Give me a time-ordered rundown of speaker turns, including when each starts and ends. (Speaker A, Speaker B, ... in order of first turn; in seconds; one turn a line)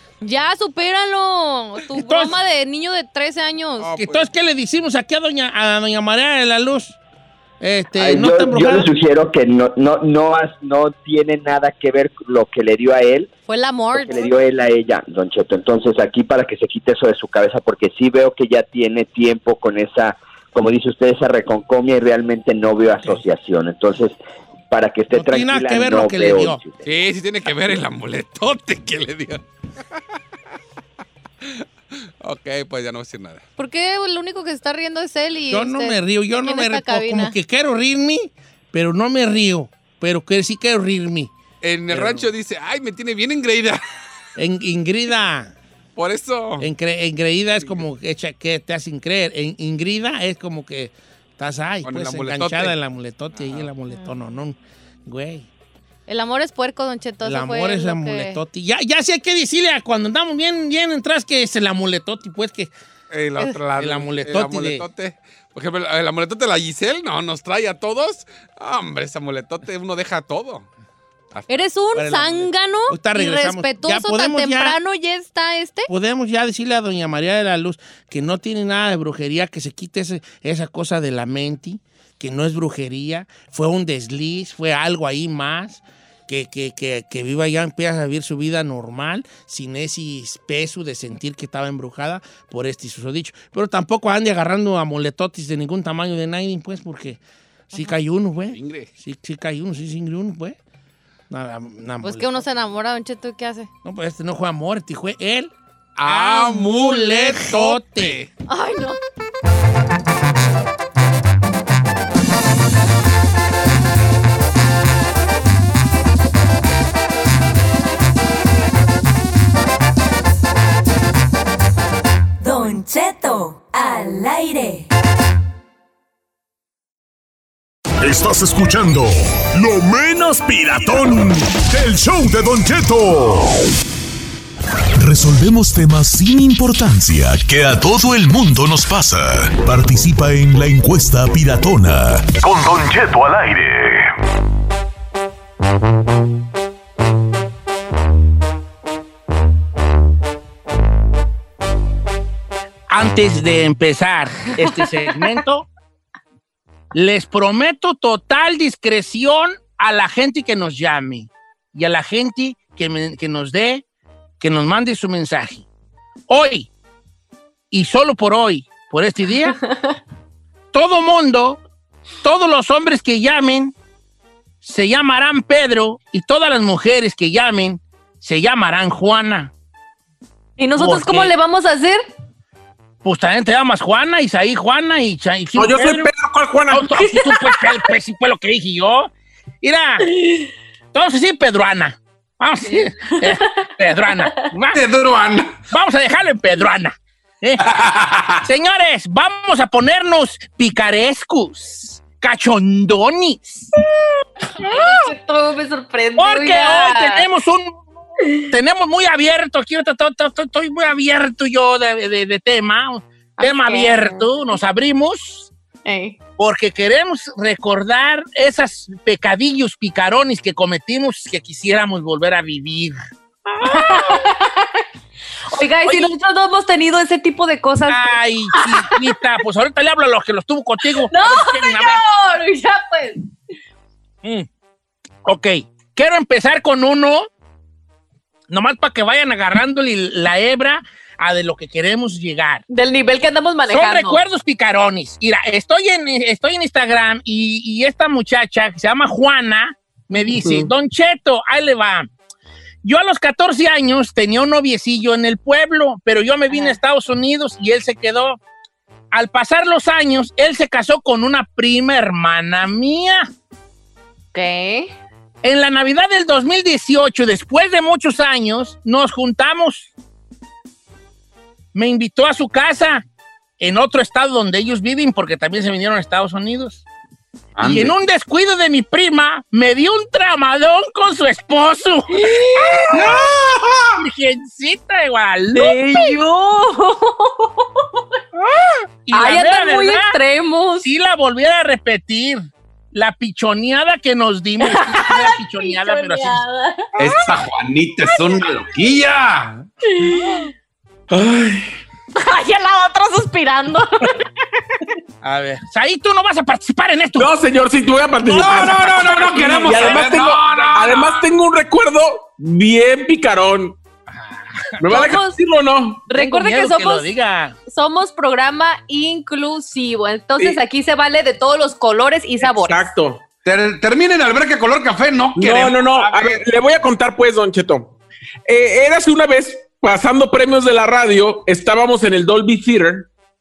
Speaker A: 0.2-3.9
Speaker B: 1.9-2.4
Speaker C: 3.8-4.3
Speaker B: 3.9-7.0
Speaker B: 7.6-8.9
Speaker D: 8.0-13.3
Speaker A: 13.5-14.3
Speaker D: 13.9-24.2
Speaker D: 24.7-26.8
Speaker B: 25.1-26.6
Speaker C: 26.8-29.4
Speaker C: 32.2-33.4
Speaker A: 33.6-37.3
Speaker B: 35.5-41.3
Speaker C: 41.6-43.8
Speaker B: 41.9-42.3
Speaker B: 44.4-45.5
Speaker C: 46.0-46.6
Speaker B: 46.6-55.5
Speaker C: 51.8-52.7
Speaker C: 53.3-53.7
Speaker A: 56.1-58.4
Speaker B: 57.2-62.7
Speaker C: 63.1-70.7
Speaker B: 63.8-64.8
Speaker C: 71.3-71.7
Speaker A: 71.5-75.9
Speaker B: 71.9-74.8
Speaker B: 75.9-97.2
Speaker B: 97.7-100.6
Speaker C: 98.5-98.9
Speaker B: 101.3-102.4
Speaker A: 102.0-103.7
Speaker B: 103.8-105.5
Speaker C: 106.0-108.3
Speaker B: 106.0-108.2
Speaker A: 108.5-109.0
Speaker E: 122.4-124.8
Speaker F: 128.0-133.5
Speaker F: 135.0-144.1
Speaker B: 152.9-155.7
Speaker B: 156.9-163.8
Speaker B: 164.4-165.7
Speaker B: 166.3-166.7
Speaker B: 167.7-169.6
Speaker B: 170.7-171.6
Speaker B: 172.2-173.7
Speaker B: 174.6-179.5
Speaker A: 180.6-182.0
Speaker B: 180.8-181.3
Speaker B: 183.0-186.1
Speaker G: 185.6-186.9
Speaker B: 186.7-189.1
Speaker A: 186.9-187.8
Speaker B: 189.6-190.1
Speaker A: 190.1-190.4
Speaker B: 190.9-194.8
Speaker A: 192.8-193.4
Speaker C: 194.7-195.6
Speaker B: 195.7-197.6
Speaker C: 197.6-198.4
Speaker B: 198.4-203.7
Speaker A: 204.6-207.2
Speaker B: 204.6-204.9
Speaker B: 206.2-207.8
Speaker B: 208.4-215.5
Speaker A: 213.4-214.3
Speaker A: 215.8-216.2
Speaker B: 216.4-223.0
Speaker A: 223.5-224.8
Speaker B: 223.6-224.2
Speaker A: 225.5-229.0
Speaker B: 225.8-226.2
Speaker B: 227.9-232.0
Speaker A: 231.1-233.3
Speaker B: 235.2-237.3
Speaker B: 238.5-242.6
Speaker A: 242.7-244.2
Speaker B: 243.7-252.1
Speaker B: 252.8-258.4
Speaker A: 256.5-256.8
Speaker B: 259.1-263.3
Speaker A: 264.3-264.9
Speaker B: 265.4-269.9
Speaker B: 271.7-273.0
Speaker B: 273.6-276.8
Speaker C: 277.6-277.9
Speaker B: 277.6-282.2
Speaker A: 282.1-282.9
Speaker B: 282.9-283.3
Speaker C: 283.1-283.9
Speaker B: 284.0-286.1
Speaker A: 285.5-287.8
Speaker B: 289.1-290.2
Speaker A: 289.1-290.9
Speaker B: 290.8-296.4
Speaker A: 294.7-297.3
Speaker C: 297.0-299.5
Speaker A: 298.0-298.7
Speaker A: 299.9-300.5
Speaker C: 301.1-301.7
Speaker A: 302.1-304.1
Speaker B: 305.2-307.3
Speaker G: 307.2-313.8
Speaker C: 308.2-311.2
Speaker A: 308.9-309.8
Speaker B: 309.4-309.9
Speaker B: 314.1-314.8
Speaker G: 314.8-316.0
Speaker A: 314.9-315.4
Speaker A: 316.1-317.1
Speaker B: 316.1-317.6
Speaker A: 317.7-322.9
Speaker G: 322.4-323.2
Speaker C: 323.4-326.4
Speaker G: 325.4-327.9
Speaker G: 328.5-333.1